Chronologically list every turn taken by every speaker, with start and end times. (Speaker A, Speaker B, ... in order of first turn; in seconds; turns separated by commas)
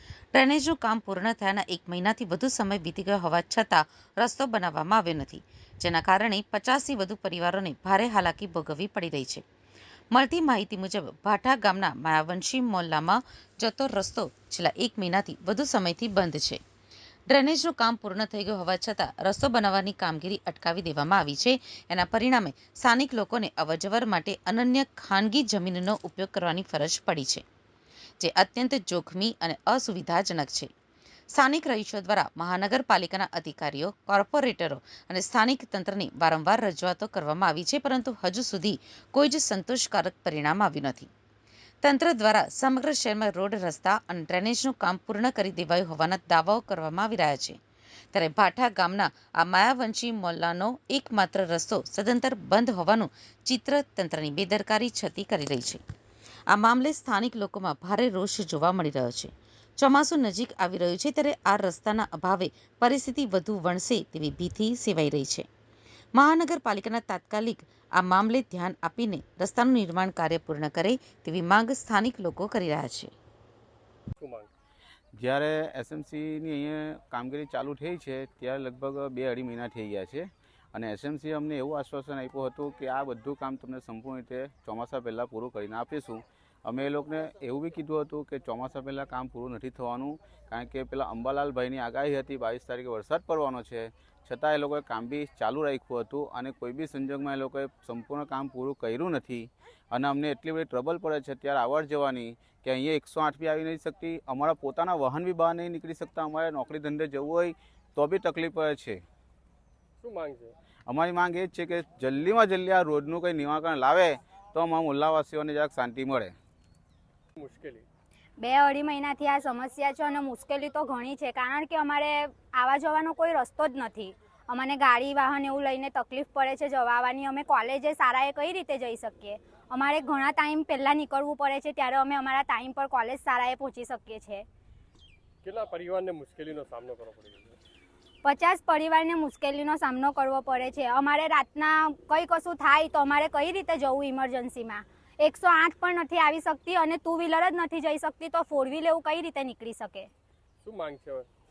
Speaker A: 0.3-9.4, Speaker A: 10.1-16.6, Speaker A: 17.3-27.4, Speaker A: 28.2-30.7, Speaker A: 31.3-41.1, Speaker A: 41.8-47.6, Speaker A: 48.1-55.8, Speaker A: 56.5-65.5, Speaker A: 66.2-73.1, Speaker B: 74.2-74.5, Speaker C: 75.2-109.0, Speaker B: 110.0-110.5, Speaker C: 110.9-116.3, Speaker B: 117.3-117.8, Speaker D: 118.4-134.4, Speaker B: 135.4-137.6, Speaker D: 138.2-150.1, Speaker B: 150.6-151.3